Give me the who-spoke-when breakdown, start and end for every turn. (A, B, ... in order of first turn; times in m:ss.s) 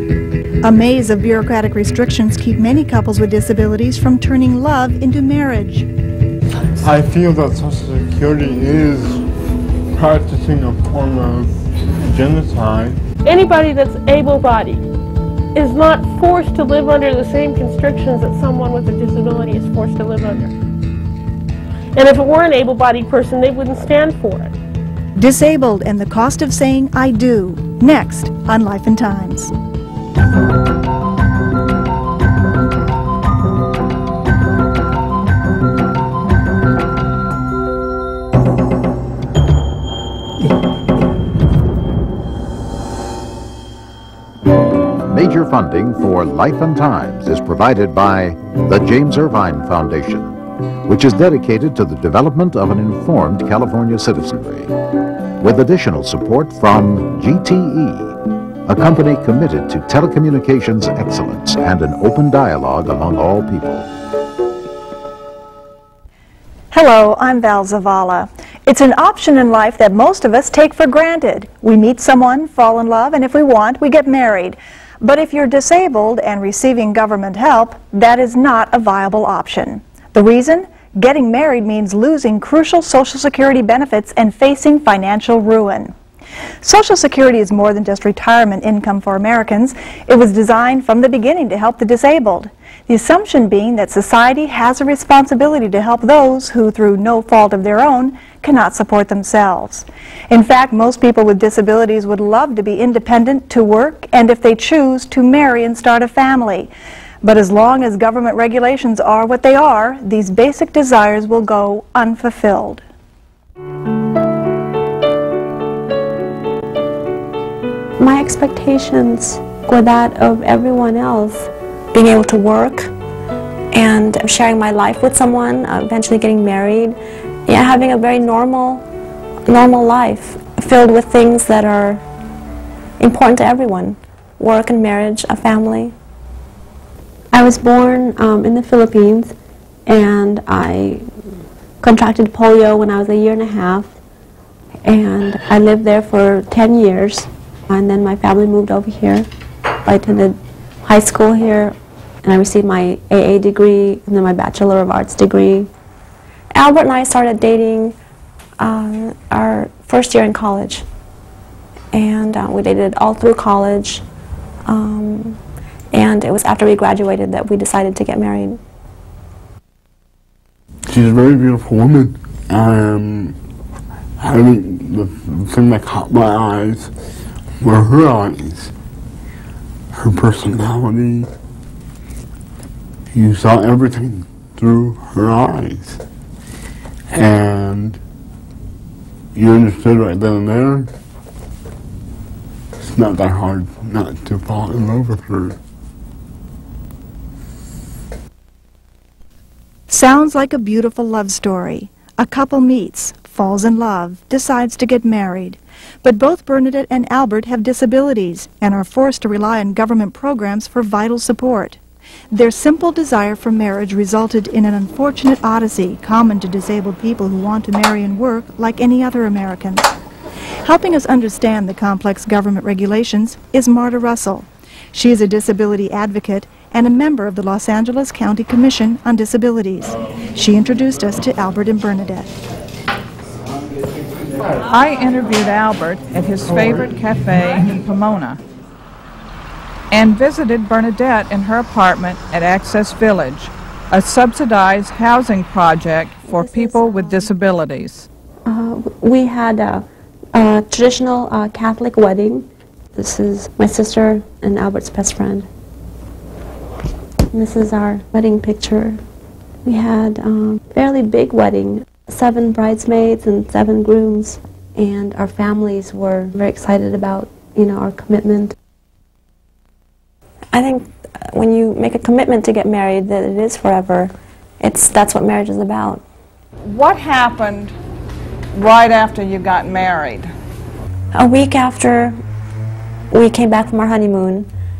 0:00.6-0:05.9 A
0:06.8-0:09.2 B
0:09.9-0:13.0 B
0:13.2-0:14.8 C
0:15.5-0:20.5 C
0:21.9-0:24.5 C
0:25.2-0:29.5 A
0:45.0-0:54.7 D
0:55.4-1:03.9 D
1:06.7-1:25.9 A
1:26.6-1:46.7 A
1:47.2-1:52.8 A
1:58.0-2:02.9 E
2:03.7-2:08.8 E
2:09.5-2:12.0 E
2:13.0-2:15.9 E
2:17.3-2:19.3 E
2:19.8-2:21.1 E
2:21.8-2:23.9 E
2:24.8-2:29.3 E
2:29.8-2:35.7 E
2:36.5-2:37.9 E
2:38.6-2:40.8 E
2:41.9-2:44.0 E
2:44.6-2:45.4 E
2:45.9-2:48.6 E
2:50.9-2:53.4 B
2:54.2-2:56.9 B
2:57.6-2:58.7 B
2:59.9-3:01.3 B
3:03.1-3:06.0 B
3:07.1-3:08.0 B
3:09.3-3:10.9 B
3:12.8-3:15.6 B
3:19.9-3:31.8 A
3:32.3-3:39.9 A
3:40.6-3:52.3 A
3:54.6-3:58.4 F
3:59.9-4:08.1 F
4:08.4-4:15.5 E
4:17.3-4:19.0 E
4:19.6-4:28.5 E
4:30.5-4:36.0 E
4:36.6-4:37.7 F
4:38.5-4:40.3 F
4:41.1-4:42.2 E
4:43.1-4:44.5 E